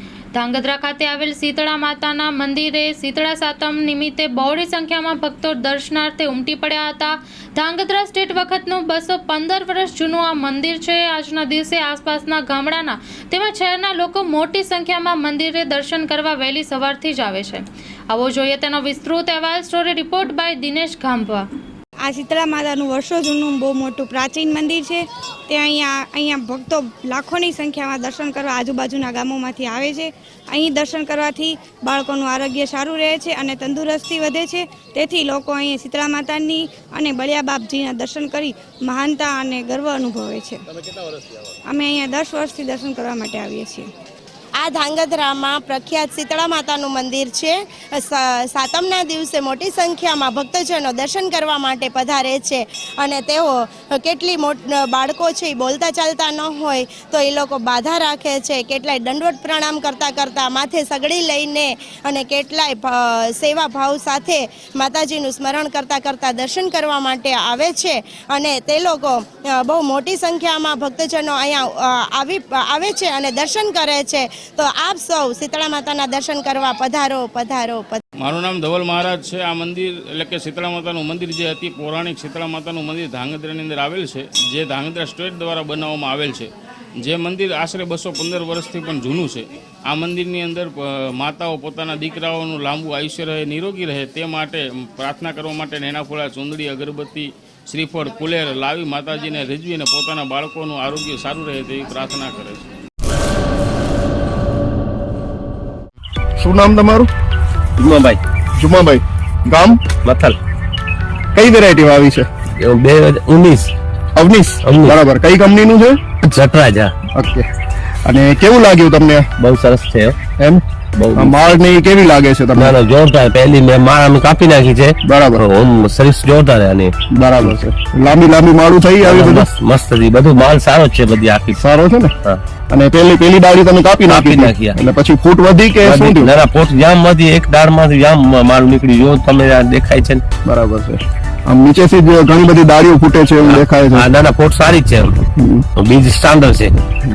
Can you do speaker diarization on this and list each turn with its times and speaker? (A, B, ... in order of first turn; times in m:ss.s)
0:00.3-0:21.4 A
0:22.0-0:40.6 B
0:41.7-0:43.9 B
0:44.6-0:53.5 C
0:54.0-1:18.0 C
1:18.2-1:26.5 D
1:27.0-1:42.6 D
1:46.4-1:47.1 E
1:47.8-1:48.2 F
1:48.6-1:49.8 E
1:50.0-1:50.4 F
1:51.3-1:52.3 E
1:52.6-1:53.7 F
1:54.2-1:56.0 E
1:54.6-1:55.0 F
1:56.2-1:56.9 F
1:57.2-1:57.5 E
1:58.0-1:59.3 E
1:59.4-2:00.2 F
2:01.0-2:01.3 F
2:01.2-2:02.8 E
2:02.6-2:07.6 F
2:05.0-2:05.4 E
2:07.1-2:09.5 E
2:09.0-2:11.6 F
2:11.6-2:12.1 E
2:12.7-2:16.3 E
2:14.1-2:14.8 F
2:15.8-2:20.2 F
2:20.4-2:24.1 E
2:23.5-2:25.2 F
2:25.4-2:25.7 E
2:25.8-2:26.7 F